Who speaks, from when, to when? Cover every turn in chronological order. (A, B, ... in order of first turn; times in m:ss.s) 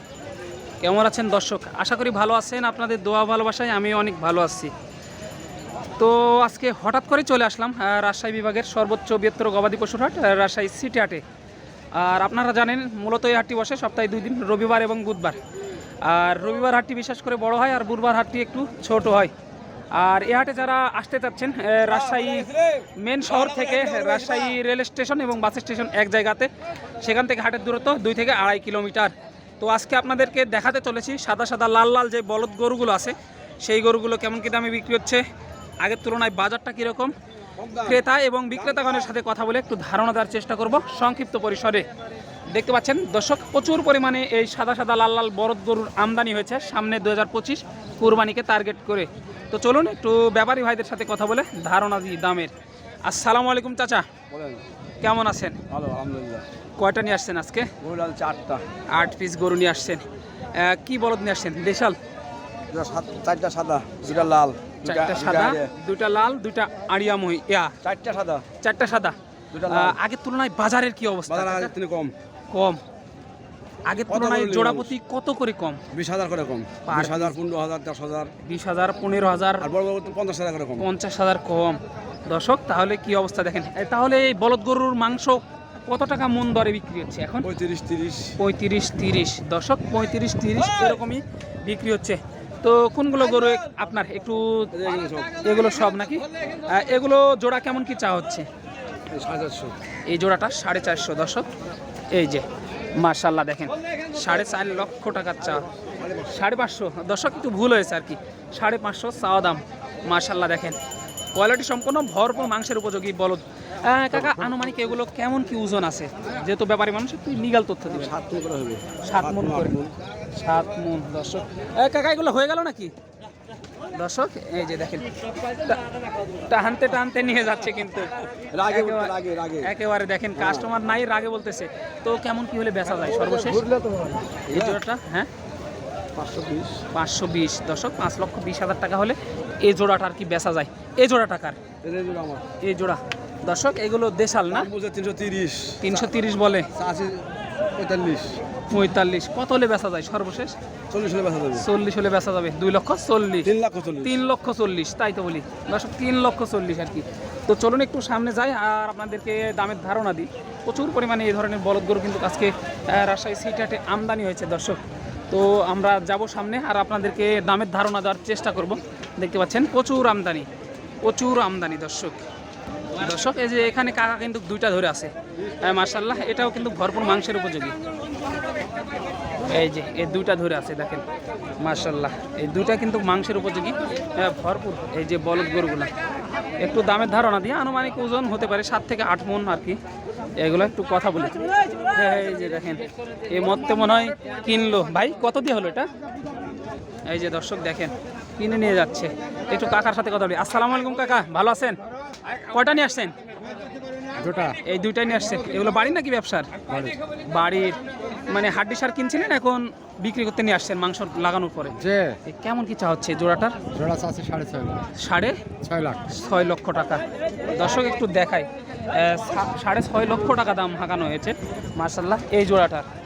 0:00.8-0:04.7 A
0:06.0-0:11.2 A
0:11.9-0:15.4 A
0:16.0-0:19.3 A
0:19.9-0:35.2 A
0:21.9-0:24.5 B
0:35.8-0:37.1 A
0:37.6-0:38.0 B
0:37.8-0:41.9 A
0:42.5-0:52.5 A
0:53.0-0:54.1 A
0:54.3-0:54.6 B
0:55.0-0:55.6 A
0:55.7-0:56.4 B
0:56.8-0:57.7 A
0:57.8-0:58.6 B
0:58.9-1:02.0 A
1:02.7-1:05.7 B
1:04.8-1:07.7 A
1:07.8-1:08.4 B
1:08.6-1:11.7 A
1:09.5-1:10.0 B
1:11.3-1:12.1 B
1:12.5-1:12.8 A
1:13.8-1:15.8 A
1:14.1-1:14.9 B
1:15.9-1:18.3 B
1:16.8-1:17.4 A
1:18.4-1:19.7 A
1:19.6-1:20.9 B
1:20.8-1:27.5 A
1:27.4-1:28.3 B
1:28.4-1:34.7 A
1:34.7-1:35.3 B
1:35.4-1:38.5 A
1:39.1-1:39.8 B
1:40.1-1:41.5 A
1:42.1-1:42.4 A
1:43.0-1:45.7 A
1:46.0-1:46.2 B
1:46.2-1:50.8 A
1:51.3-1:58.2 A
1:54.2-1:54.7 B
1:57.9-1:59.9 B
1:59.0-1:59.8 A
2:00.4-2:02.9 A
2:03.9-2:05.8 A
2:06.5-2:08.1 A
2:08.5-2:09.7 B
2:08.7-2:13.7 A
2:10.4-2:10.7 B
2:13.5-2:14.8 B
2:14.5-2:15.3 A
2:16.1-2:16.8 B
2:16.9-2:21.6 A
2:21.8-2:22.4 B
2:22.6-2:24.7 A
2:24.5-2:26.1 B
2:25.8-2:26.7 A
2:26.7-2:28.4 B
2:28.7-2:30.6 A
2:30.9-2:31.7 B
2:31.5-2:50.5 A
2:33.4-2:34.2 B
2:51.0-2:52.2 A
2:53.0-2:57.7 A
2:59.4-3:01.0 A
3:01.6-3:05.9 A
3:06.6-3:09.8 A
3:10.4-3:15.9 A
3:17.0-3:21.8 A
3:22.5-3:23.1 A
3:24.6-3:26.5 A
3:27.2-3:33.6 A
3:34.9-3:35.4 A
3:36.0-3:42.9 A